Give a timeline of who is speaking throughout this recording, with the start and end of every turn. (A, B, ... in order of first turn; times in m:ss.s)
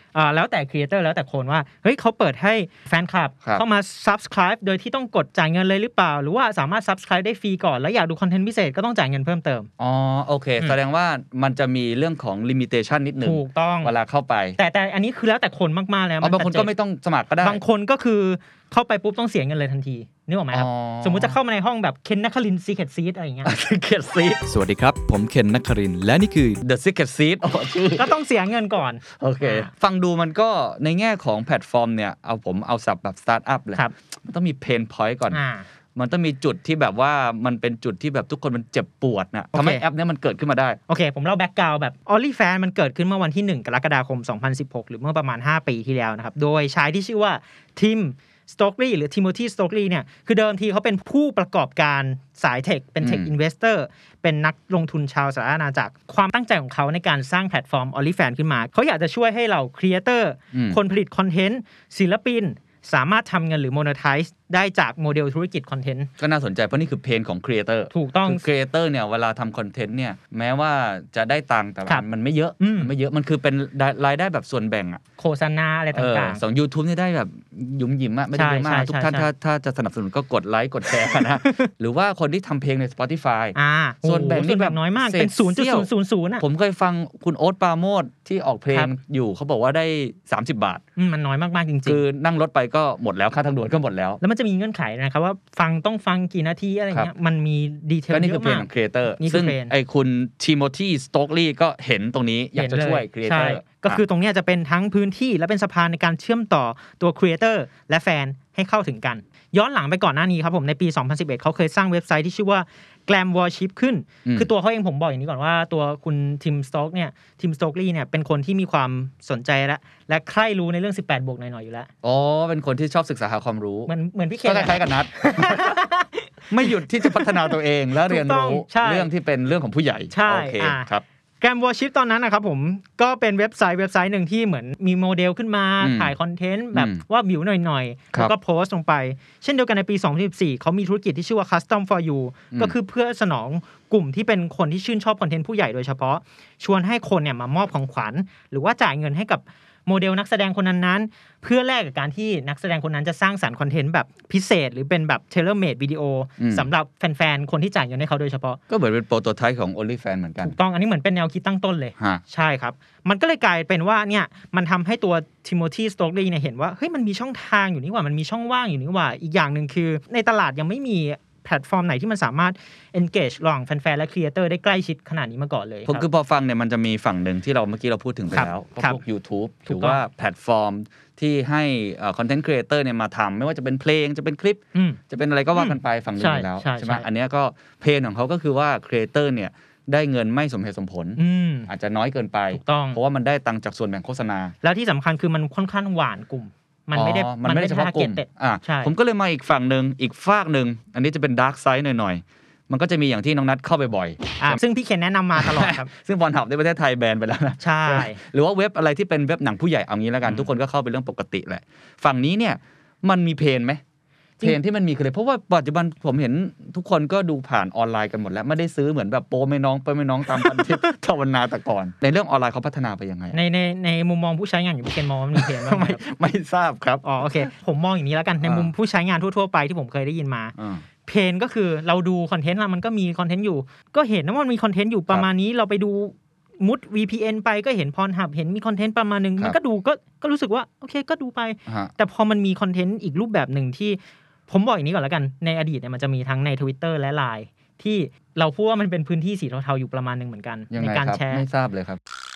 0:00.1-0:09.7 A
0:09.8-0:14.6 B
0:13.2-0:13.9 A
0:14.6-0:16.7 A
0:16.2-0:17.6 B
0:17.4-0:23.5 A
0:20.5-0:21.4 B
0:23.4-0:24.4 B
0:24.5-0:26.6 C
0:26.6-0:28.1 B
0:28.0-0:29.7 A
0:29.2-0:35.4 B
0:35.3-0:35.6 A
0:36.0-0:40.8 B
0:39.5-0:39.8 A
0:40.9-1:06.1 A
0:53.0-0:53.3 B
1:00.5-1:00.8 B
1:06.2-1:15.0 B
1:07.9-1:08.4 A
1:12.6-1:12.9 A
1:15.2-1:16.4 A
1:15.9-1:25.9 B
1:18.3-1:19.3 A
1:21.4-1:21.7 A
1:23.5-1:26.4 A
1:26.4-1:30.8 B
1:31.0-1:32.0 A
1:31.8-1:34.2 B
1:34.2-1:39.7 A
1:38.1-1:44.0 B
1:42.5-2:01.9 A
2:02.0-2:03.9 B
2:03.9-2:09.1 A
2:04.4-2:05.8 B
2:06.5-2:11.0 B
2:10.1-2:10.9 A
2:11.4-2:38.6 A
2:15.8-2:16.1 B
2:16.7-2:17.0 B
2:36.4-2:36.7 B
2:38.7-2:40.5 B
2:40.4-2:56.0 A
2:42.0-2:42.2 B
2:55.9-3:14.5 B
2:58.3-2:59.0 A
2:59.7-3:00.0 A
3:04.7-3:05.0 A
3:05.5-3:07.0 A
3:11.2-3:11.7 A
3:12.5-3:13.0 A
3:14.6-3:18.9 A
3:16.9-3:24.6 B
3:24.4-3:25.9 A
3:25.4-3:33.8 B
3:27.6-3:28.2 A
3:34.4-3:43.4 B
3:40.3-3:40.8 A
3:43.3-3:46.0 A
3:45.3-3:47.5 B
3:47.0-4:11.4 A
3:48.4-3:48.7 B
3:50.6-3:50.8 B
4:01.7-4:01.9 B
4:10.7-4:12.0 B